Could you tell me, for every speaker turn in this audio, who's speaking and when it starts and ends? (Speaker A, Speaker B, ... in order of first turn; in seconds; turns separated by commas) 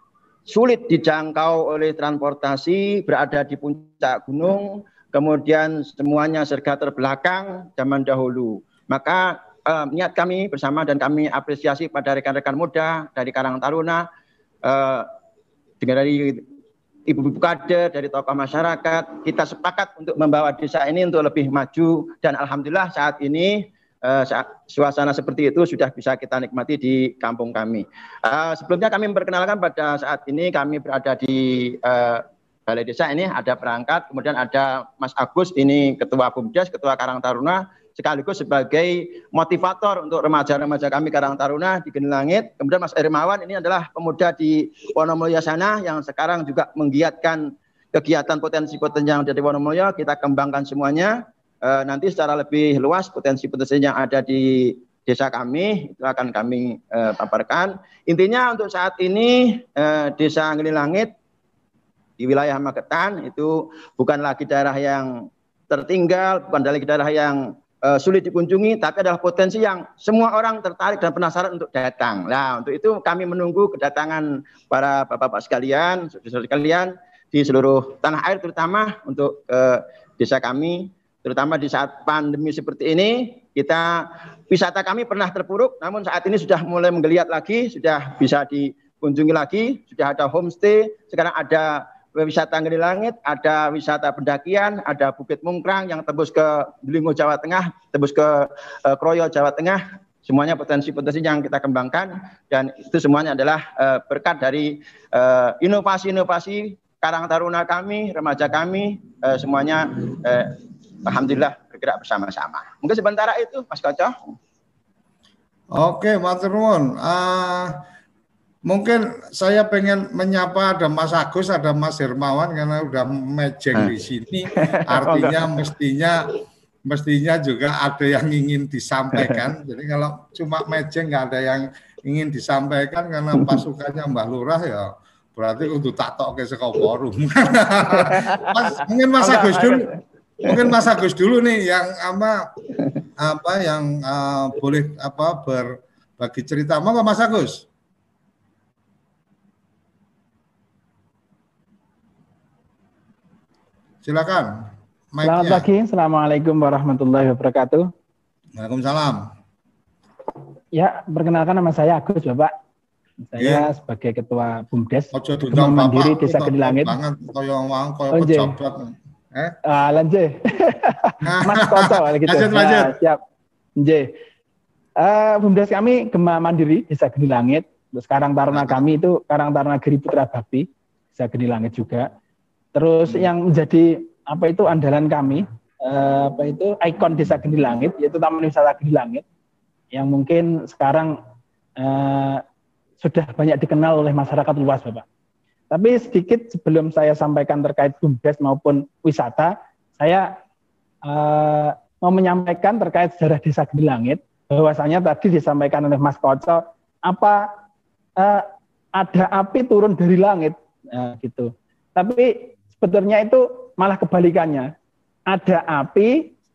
Speaker A: 0.5-14.1, Speaker A: 14.6-15.1, Speaker A: 15.8-16.4, Speaker A: 17.1-61.1, Speaker A: 62.2-114.2, Speaker B: 115.7-117.8, Speaker B: 118.7-126.3, Speaker A: 124.5-125.6, Speaker B: 126.9-139.9, Speaker A: 133.4-133.6, Speaker A: 137.9-140.8, Speaker B: 140.4-142.4, Speaker A: 142.8-143.0, Speaker B: 143.2-147.7, Speaker B: 154.0-154.5, Speaker B: 155.1-155.7, Speaker C: 155.2-157.9, Speaker B: 158.6-159.3, Speaker C: 160.7-162.5, Speaker C: 163.3-167.0, Speaker B: 163.4-163.7, Speaker B: 165.1-169.6, Speaker C: 168.1-168.6, Speaker C: 169.7-173.2, Speaker B: 171.2-173.0, Speaker C: 173.8-174.1, Speaker C: 175.0-182.1, Speaker B: 178.5-178.8, Speaker C: 182.8-189.2, Speaker C: 189.9-191.2, Speaker C: 191.8-192.4, Speaker C: 193.0-195.1, Speaker C: 195.7-200.3, Speaker C: 201.1-207.5, Speaker C: 208.2-214.7, Speaker C: 215.3-216.3